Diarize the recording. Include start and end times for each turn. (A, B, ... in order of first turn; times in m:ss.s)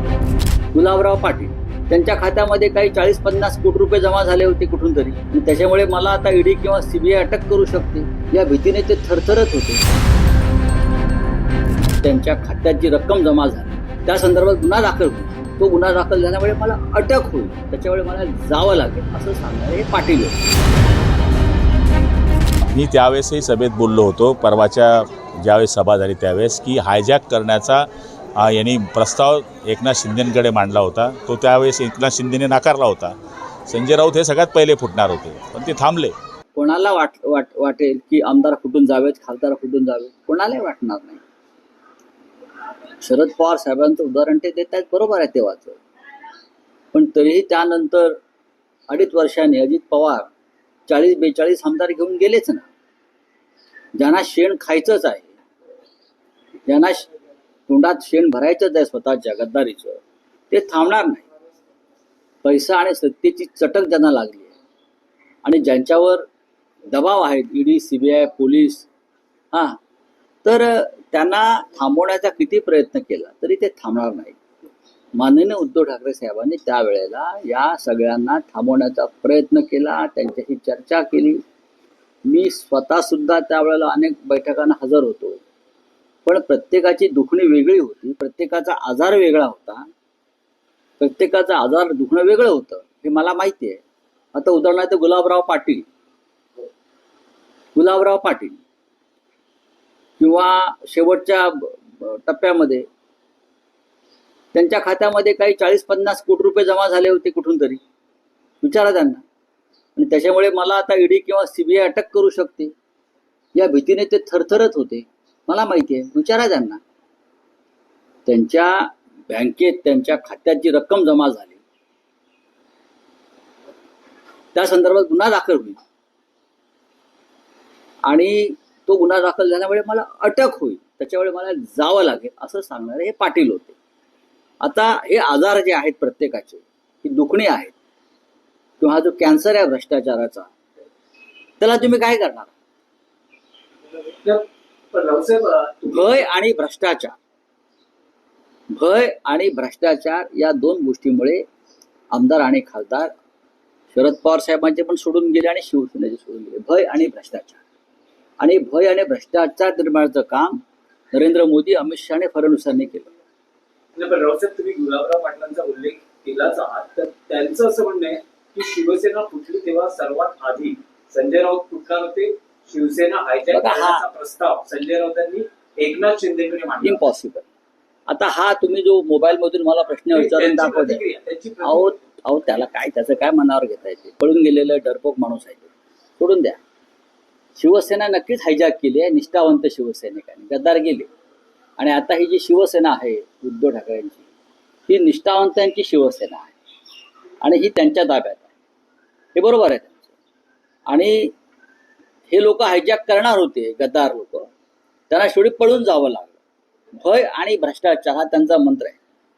0:00.7-0:09.8 A
0:12.0-0:20.4 A
0:22.7-0:33.2 B
0:33.7-0:36.1 B
0:36.5-0:41.2 A
0:43.0-0:45.8 A
0:46.9-0:48.2 A
0:48.9-0:50.3 A
0:50.9-0:52.7 A
0:54.0-0:55.4 A
0:56.7-0:57.1 A
0:57.7-1:00.0 A
1:00.5-1:01.2 A
1:02.4-1:04.5 A
1:05.4-1:06.2 A
1:06.9-1:08.8 A
1:09.5-1:09.8 A
1:10.4-1:14.4 A
1:15.2-1:21.4 A
1:22.2-1:25.4 A
1:26.2-1:29.9 A
1:31.0-1:33.8 A
1:34.3-1:35.9 A
1:37.7-1:38.6 A
1:40.2-1:42.8 A
1:44.5-1:47.8 A
1:48.6-1:49.2 A
1:50.0-1:52.7 A
1:53.5-1:56.8 A
1:58.2-2:01.6 A
2:04.5-2:05.8 A
2:08.0-2:13.8 A
2:14.6-2:17.7 A
2:18.8-2:20.5 A
2:21.6-2:22.5 A
2:24.2-2:26.2 C
2:25.8-2:27.2 A
2:28.7-2:31.4 A
2:32.1-2:33.1 A
2:33.9-2:37.6 A
2:38.4-2:40.6 A
2:41.1-2:43.1 A
2:43.9-2:57.0 C
2:53.5-2:54.0 A
2:56.8-2:57.5 A
2:58.1-3:01.0 A
3:00.1-3:02.0 C
3:01.6-3:06.6 A
3:07.6-3:11.1 A
3:11.8-3:14.2 A
3:14.9-3:16.5 A
3:17.4-3:18.5 A
3:19.3-3:20.1 A
3:20.9-3:21.3 A
3:22.3-3:24.5 A
3:25.1-3:26.4 A
3:27.0-3:29.0 A